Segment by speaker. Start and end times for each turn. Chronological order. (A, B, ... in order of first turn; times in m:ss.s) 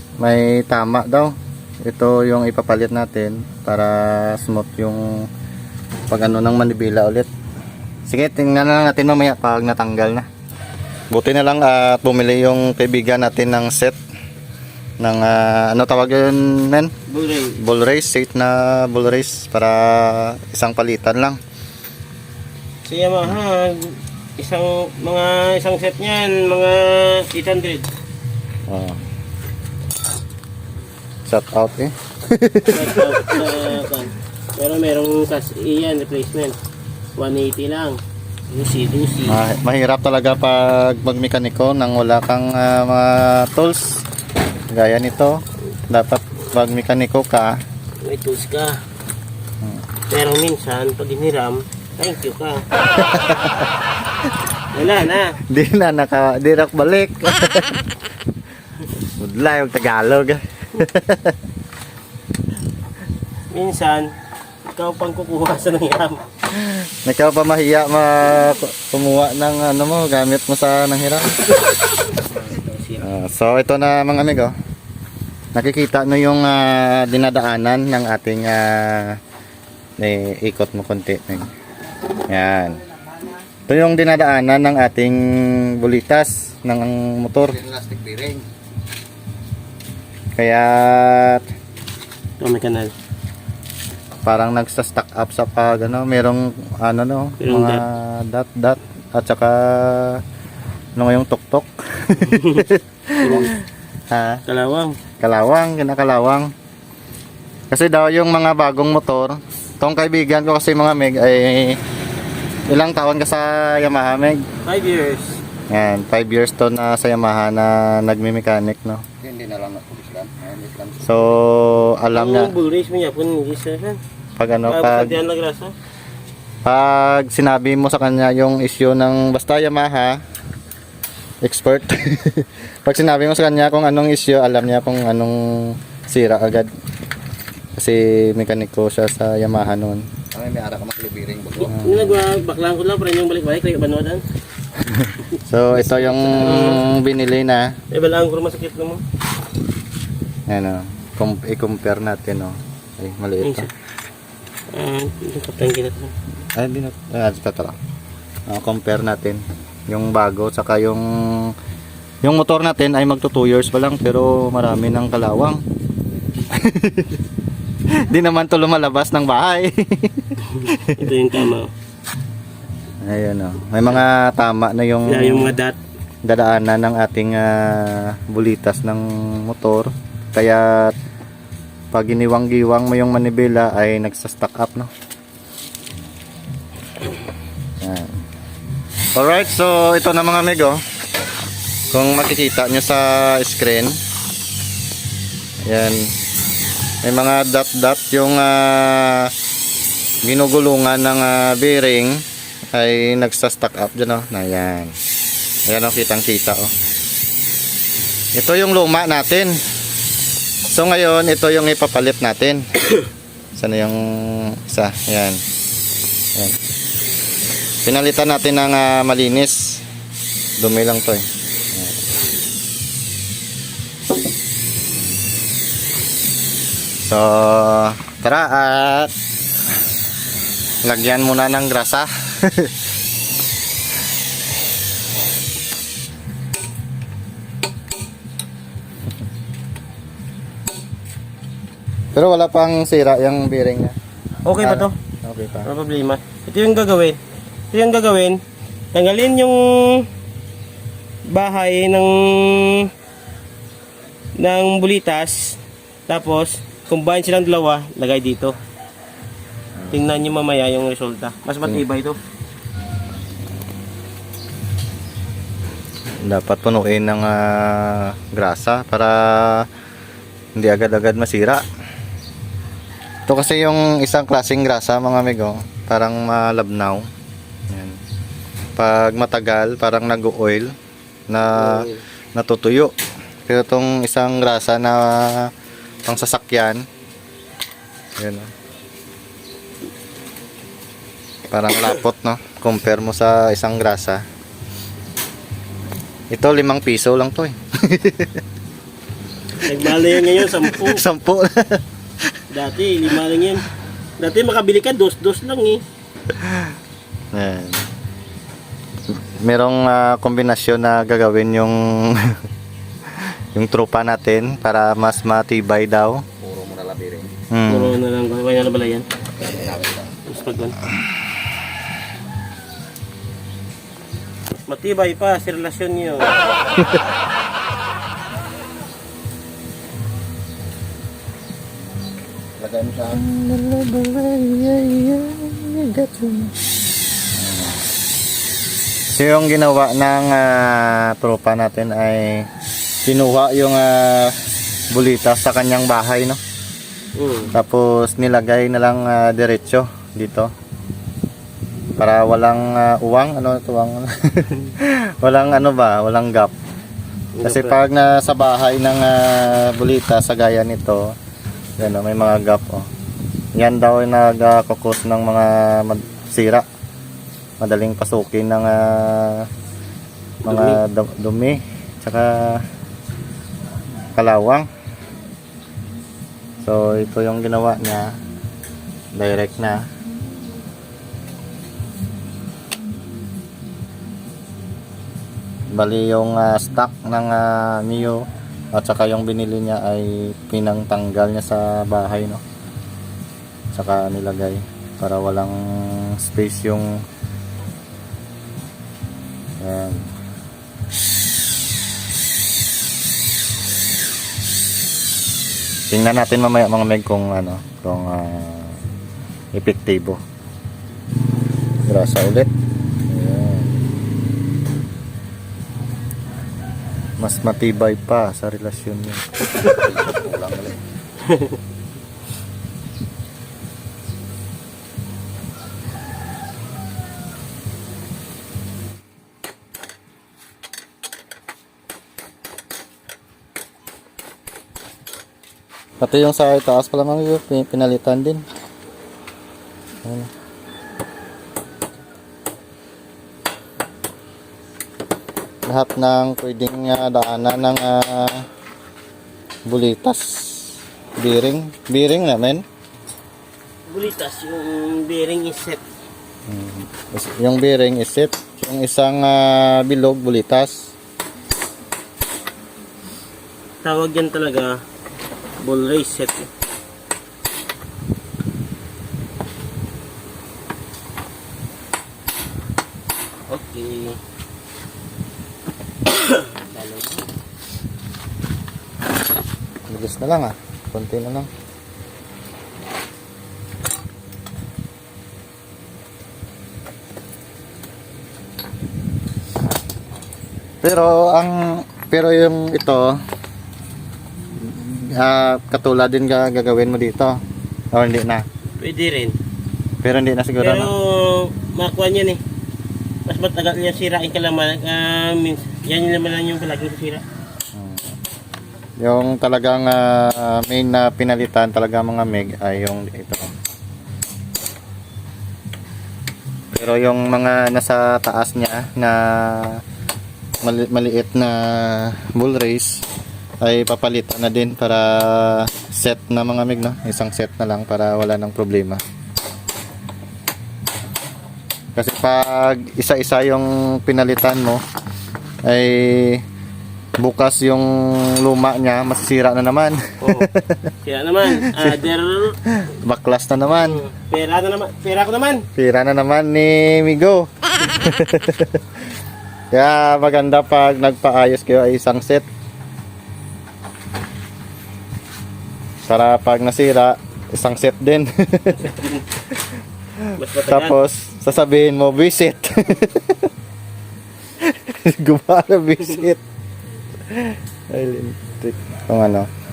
0:00.2-0:05.3 A
0:06.1-0:07.3 A
0:08.1-0:10.3 A
0:11.1-0:14.0 A
0:15.0-0:16.9 A
0:17.1-0:17.6 B
0:17.6-0:21.4 A
0:22.8-0:27.9 B
0:28.7-0:29.0 A
0:31.2-0:33.4 A
0:32.7-0:36.6 B
0:37.2-0:38.0 B
0:38.5-0:39.4 B
0:39.2-0:44.1 A
0:44.7-0:47.6 A
0:48.0-0:48.8 B
0:50.1-0:52.6 B
0:52.9-0:53.7 A
0:54.7-0:55.4 B
0:55.4-0:57.8 A
0:59.0-1:01.4 A
1:03.5-1:04.1 B
1:04.7-1:06.2 B
1:06.6-1:11.4 A
1:12.2-1:13.0 B
1:13.0-1:14.5 A
1:15.5-1:19.2 A
1:20.0-1:21.5 A
1:22.3-1:22.8 A
1:23.7-1:27.9 A
1:27.7-1:28.4 C
1:30.4-1:31.4 A
1:32.4-1:32.9 B
1:34.2-1:40.2 A
1:37.4-1:37.8 B
1:41.0-1:43.6 A
1:42.2-1:42.6 B
1:43.2-1:43.5 B
1:44.1-1:44.4 A
1:44.5-1:45.0 B
1:45.2-1:46.5 A
1:47.7-1:51.8 A
1:52.7-1:54.4 A
1:54.6-1:55.4 B
1:55.7-1:59.2 A
1:59.2-2:01.0 C
2:01.0-2:02.5 A
2:02.1-2:04.0 B
2:04.4-2:05.2 A
2:04.7-2:05.7 B
2:06.6-2:10.2 A
2:11.4-2:16.7 A
2:17.8-2:20.2 A
2:20.3-2:21.7 C
2:21.6-2:24.2 B
2:21.7-2:22.2 A
2:24.8-2:27.8 A
2:25.7-2:26.9 B
2:27.9-2:29.0 B
2:30.5-2:33.7 A
2:33.4-2:33.7 B
2:34.7-2:36.1 B
2:36.5-2:37.8 A
2:38.5-2:41.5 A
2:42.2-2:45.6 A
2:46.5-2:47.2 A
2:48.0-2:51.0 A
2:50.6-2:51.7 B
2:53.0-2:55.6 A
2:55.1-2:55.8 B
2:56.2-3:00.9 A
3:01.9-3:04.9 A
3:07.8-3:08.2 A
3:09.2-3:10.8 A
3:11.9-3:14.0 A
3:15.6-3:16.1 A
3:17.0-3:19.3 A
3:20.2-3:25.0 A
3:25.7-3:26.7 A
3:28.4-3:29.6 A
3:30.7-3:32.6 A
3:33.5-3:35.4 A
3:37.8-3:39.8 A
3:40.6-3:41.9 A
3:47.0-3:49.1 A
3:50.8-3:52.7 A
4:02.1-4:04.0 A
4:04.4-4:05.0 B
4:04.6-4:05.7 A
4:05.6-4:07.2 B
4:07.7-4:08.4 B
4:08.9-4:10.1 B
4:11.3-4:12.9 B
4:14.4-4:18.6 B
4:19.9-4:22.2 B
4:26.2-4:29.6 A
4:30.6-4:31.6 A
4:33.3-4:37.1 A
4:37.7-4:38.0 A
4:38.8-4:40.7 A
4:41.3-4:42.9 A
4:41.5-4:42.0 B
4:43.4-4:45.5 A
4:46.0-4:46.8 A
4:48.2-4:48.5 A
4:51.5-4:54.2 A
4:56.3-4:58.4 A
4:59.6-5:01.0 B
5:00.1-5:01.8 A
5:02.5-5:03.7 B
5:04.2-5:05.8 B
5:06.3-5:06.7 A
5:07.3-5:07.9 A
5:09.1-5:12.4 A
5:13.5-5:16.2 A
5:16.4-5:17.3 C
5:17.5-5:18.0 A
5:17.7-5:19.0 B
5:19.6-5:20.0 C
5:20.2-5:20.8 B
5:24.6-5:26.5 B
5:32.6-5:36.5 A
5:37.4-5:37.8 A
5:39.1-5:42.5 A
5:43.0-5:44.4 A
5:44.9-5:46.4 A
5:47.2-5:47.5 B
5:47.5-5:50.5 A
5:52.0-5:56.5 A
5:57.3-5:57.8 B
5:57.4-6:01.1 A
6:01.8-6:02.9 A
6:03.6-6:06.6 A
6:07.6-6:09.5 A
6:10.4-6:10.8 B
6:10.4-6:12.6 A
6:14.1-6:14.7 A
6:16.6-6:18.2 A
6:19.1-6:19.9 A
6:25.7-6:32.4 A
6:33.7-6:37.0 A
6:39.6-6:40.1 A
6:45.9-6:48.8 A
6:49.5-6:50.2 A
6:51.9-6:52.5 A
6:53.1-6:53.8 A
6:57.2-6:59.3 A
6:59.8-7:00.7 C
7:01.2-7:01.6 B
7:16.0-7:18.4 A
7:20.0-7:20.3 A
7:25.7-7:28.5 A
7:29.7-7:32.6 A
7:33.9-7:35.8 B
7:36.5-7:40.9 A
7:43.8-7:44.8 B
7:45.6-7:46.5 B
7:53.5-7:54.2 B
7:56.0-7:57.2 B
7:59.9-8:01.5 A
8:10.8-8:13.2 A
8:14.6-8:17.4 A
8:17.9-8:18.4 A
8:18.8-8:19.4 B
8:20.0-8:20.9 A
8:20.6-8:22.4 B
8:23.3-8:27.2 B
8:27.7-8:28.0 A
8:29.0-8:33.5 A
8:36.7-8:39.8 A
8:40.6-8:43.0 A
8:43.6-8:49.0 A
8:52.0-8:54.8 A
8:55.6-8:56.4 A
8:57.2-9:00.9 A
9:00.2-9:00.5 B
9:01.0-9:02.6 B
9:01.6-9:01.9 A
9:02.6-9:04.0 A
9:03.8-9:05.6 B
9:05.8-9:08.8 A
9:09.7-9:12.4 A
9:16.1-9:19.6 A
9:18.8-9:19.2 B
9:20.2-9:23.5 A
9:20.4-9:21.0 B
9:24.6-9:26.4 A
9:27.3-9:29.5 A